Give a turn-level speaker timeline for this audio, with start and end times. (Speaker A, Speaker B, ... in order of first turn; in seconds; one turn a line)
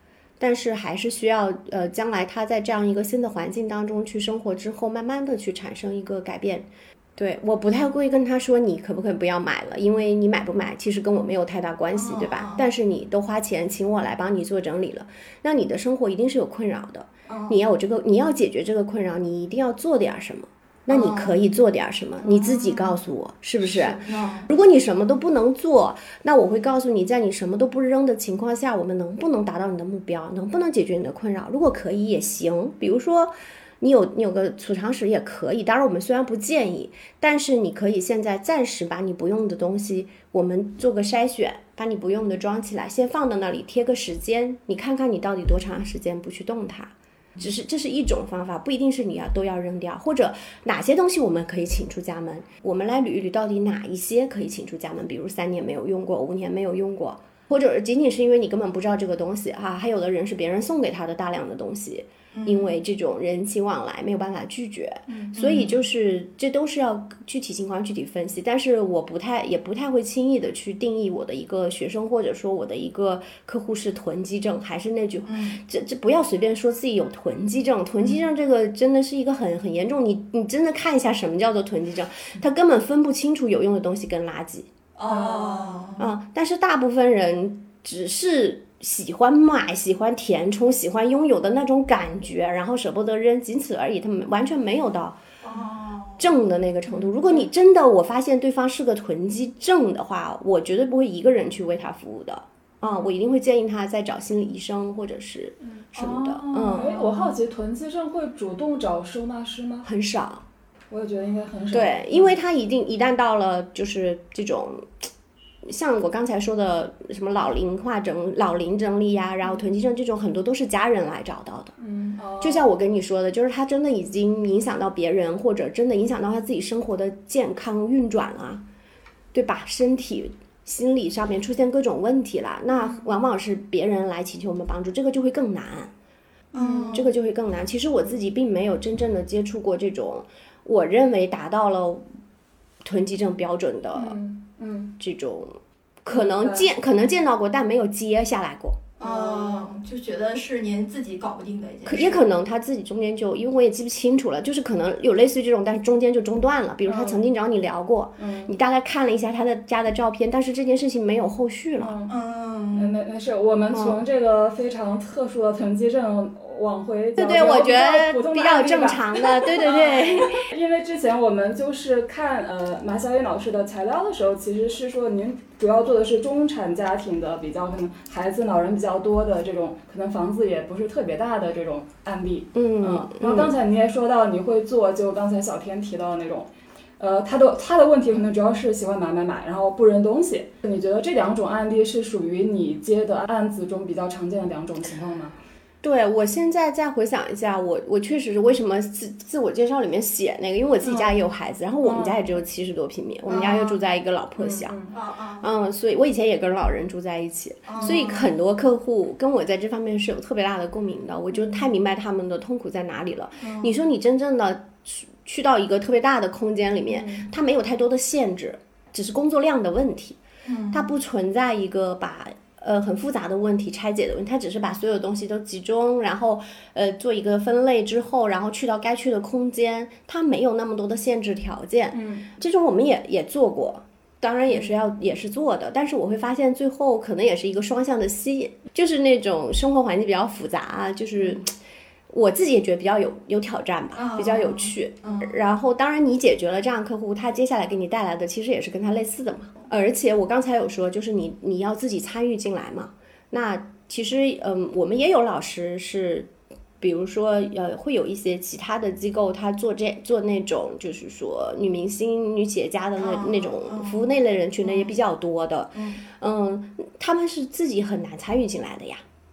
Speaker A: 0.4-84.7
Speaker B: 11.9-12.7
Speaker B: 17.3-17.6
Speaker B: 20.9-21.4
Speaker B: 22.2-23.0
Speaker B: 23.6-24.5
Speaker B: 62.3-62.7
Speaker B: 65.2-65.8
Speaker B: 75.3-75.6
Speaker B: 85.0-86.0
Speaker C: 85.1-85.9
Speaker A: 86.0-95.2
Speaker B: 95.4-96.3
Speaker A: 96.2-106.9
Speaker C: 105.8-109.9
Speaker B: 106.2-107.3
Speaker A: 109.8-110.5
Speaker C: 110.9-112.3
Speaker A: 111.7-115.1
Speaker A: 115.6-121.7
Speaker C: 121.8-122.7
Speaker A: 122.4-128.6
Speaker A: 129.3-135.9
Speaker C: 136.5-137.0
Speaker B: 136.5-137.1
Speaker A: 136.9-142.1
Speaker A: 142.8-144.2
Speaker C: 143.9-145.0
Speaker A: 145.0-149.1
Speaker C: 146.1-146.7
Speaker C: 149.0-149.7
Speaker B: 149.0-152.3
Speaker A: 151.9-161.9
Speaker C: 156.8-157.2
Speaker C: 158.2-158.5
Speaker C: 161.8-162.1
Speaker B: 162.1-163.0
Speaker C: 162.8-195.4
Speaker A: 163.7-164.0
Speaker A: 167.2-170.4
Speaker B: 169.6-170.3
Speaker A: 182.6-183.5
Speaker A: 195.8-204.8
Speaker C: 200.8-201.2
Speaker C: 201.8-202.2
Speaker B: 203.3-203.7
Speaker C: 203.3-203.7
Speaker C: 204.4-204.9
Speaker B: 204.9-205.5
Speaker A: 205.4-220.2
Speaker B: 207.7-208.3
Speaker C: 207.8-208.2
Speaker B: 213.4-213.7
Speaker C: 216.9-217.3
Speaker B: 220.5-220.9
Speaker A: 220.7-241.5
Speaker C: 231.9-232.3
Speaker A: 242.1-269.0
Speaker B: 243.9-245.4
Speaker B: 263.0-264.1
Speaker B: 264.6-265.0
Speaker B: 265.8-266.0